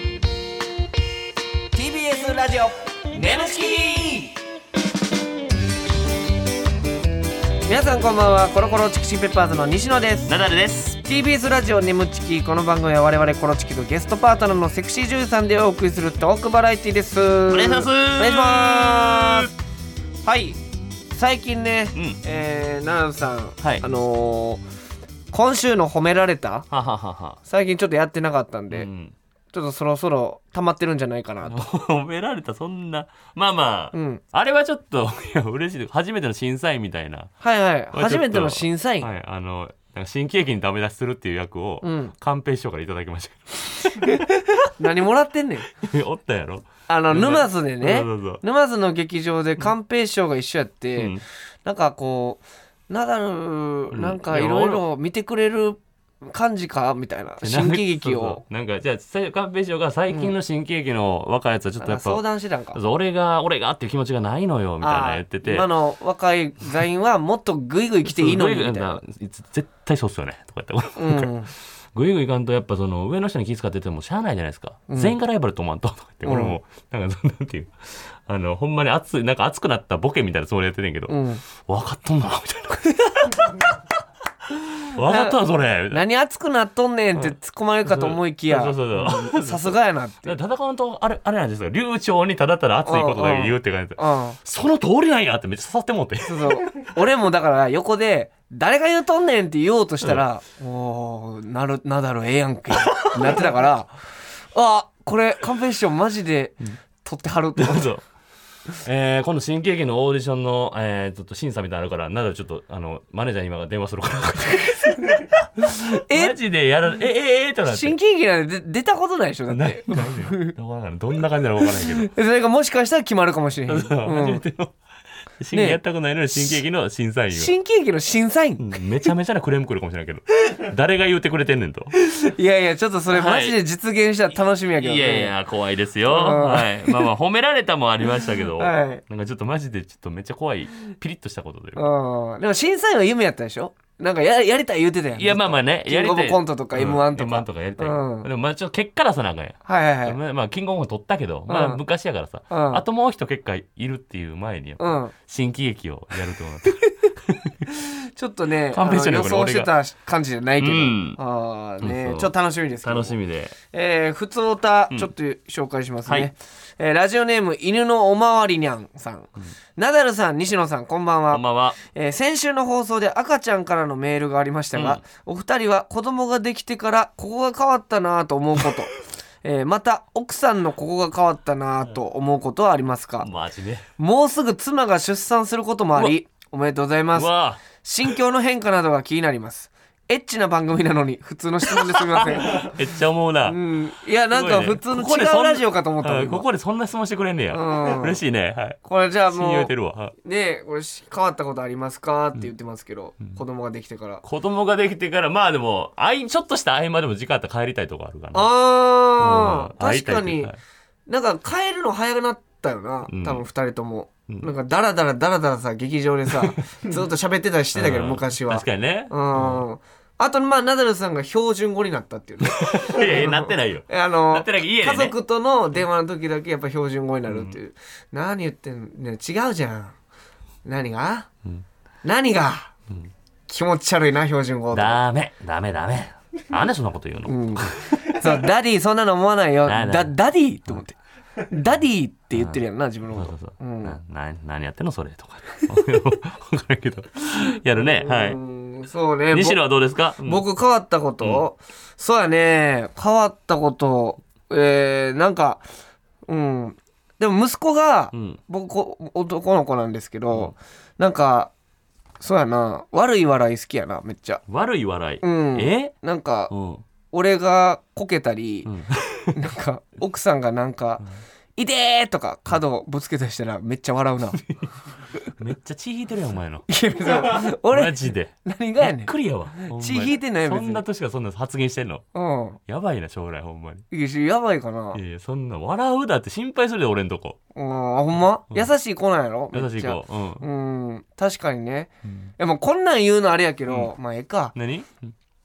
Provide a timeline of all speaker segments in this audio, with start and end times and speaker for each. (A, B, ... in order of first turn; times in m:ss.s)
0:01.7-0:04.4 A
0:07.7-0:10.3 A
0:10.3-0:11.0 B
0:11.0-0:19.5 A
0:17.5-0:19.5 B
0:20.2-0:20.6 A
0:21.1-0:24.6 A
0:21.9-0:22.2 B
0:25.3-0:26.7 A
0:26.7-0:27.4 B
0:27.5-0:28.9 A
0:28.7-0:29.1 B
0:29.5-0:31.6 A
0:31.4-0:37.3 B
0:33.9-0:34.2 A
0:37.4-0:39.1 A
0:37.9-0:44.2 B
0:41.8-0:42.1 A
0:44.0-0:45.7 A
0:45.8-0:48.4 B
0:46.9-0:58.4 A
0:51.0-0:51.2 B
0:53.9-0:54.8 B
0:57.4-1:02.2 B
1:01.8-1:02.8 A
1:02.7-1:05.7 B
1:04.8-1:09.0 A
1:08.1-1:11.3 B
1:11.0-1:11.5 A
1:11.9-1:23.8 B
1:14.9-1:15.2 A
1:16.2-1:16.6 A
1:21.1-1:21.4 A
1:24.5-1:26.0 B
1:25.0-1:25.4 A
1:25.9-1:30.4 A
1:27.2-1:36.6 B
1:32.8-1:34.4 A
1:36.2-1:44.0 A
1:42.7-1:43.4 B
1:44.5-1:48.0 A
1:47.6-1:48.0 B
1:48.8-1:58.0 B
1:55.7-1:56.4 A
1:57.6-2:00.5 A
1:59.5-2:02.1 B
2:01.6-2:04.4 A
2:03.7-2:04.7 B
2:05.4-2:07.5 B
2:05.5-2:05.8 A
2:06.3-2:06.6 A
2:07.3-2:08.7 A
2:08.6-2:11.9 B
2:12.0-2:15.3 A
2:13.1-2:13.6 B
2:14.8-2:21.9 B
2:16.1-2:17.1 A
2:18.6-2:19.0 A
2:21.7-2:28.3 A
2:25.1-2:37.6 B
2:29.6-2:30.2 A
2:31.5-2:31.8 A
2:32.5-2:32.8 A
2:34.8-2:35.1 A
2:37.7-2:43.2 A
2:38.7-2:39.7 B
2:40.6-2:41.2 B
2:41.8-2:43.6 B
2:43.7-3:03.3 A
2:46.0-2:46.3 B
2:51.3-2:51.8 B
2:54.7-2:55.0 B
3:03.2-3:03.8 B
3:04.0-3:12.8 A
3:07.1-3:07.6 B
3:11.7-3:13.6 B
3:13.4-3:16.5 A
3:14.3-3:20.1 B
3:17.5-3:18.2 A
3:18.8-3:19.7 A
3:20.2-3:24.2 A
3:24.2-3:28.5 B
3:28.3-3:30.5 A
3:29.2-3:30.6 B
3:31.1-3:49.9 A
3:33.1-3:33.4 B
3:36.3-3:37.0 B
3:37.7-3:39.6 B
3:42.4-3:45.2 B
3:47.3-3:47.6 B
3:50.6-3:51.3 A
3:52.0-3:52.7 A
3:53.5-3:55.0 A
3:54.7-3:58.2 B
3:57.2-4:01.0 A
3:59.6-4:00.1 B
4:01.5-4:04.0 A
4:02.3-4:02.6 B
4:03.1-4:08.4 B
4:07.8-4:09.6 A
4:09.3-4:10.4 B
4:10.2-4:15.6 A
4:11.2-4:11.5 B
4:16.3-4:21.5 A
4:18.1-4:18.4 B
4:22.2-4:24.4 A
4:24.5-4:25.9 B
4:25.2-4:26.5 A
4:26.5-4:26.8 B
4:27.1-4:28.7 A
4:28.6-4:29.4 B
4:29.3-4:31.0 A
4:31.6-4:34.4 A
4:35.4-4:36.7 B
4:36.7-4:40.8 A
4:37.2-4:42.0 B
4:42.1-4:42.6 A
4:42.7-4:43.8 B
4:43.9-4:45.0 A
4:44.9-4:47.4 B
4:47.5-4:54.5 A
4:49.5-4:50.4 B
4:52.0-4:52.3 B
4:54.5-4:55.1 B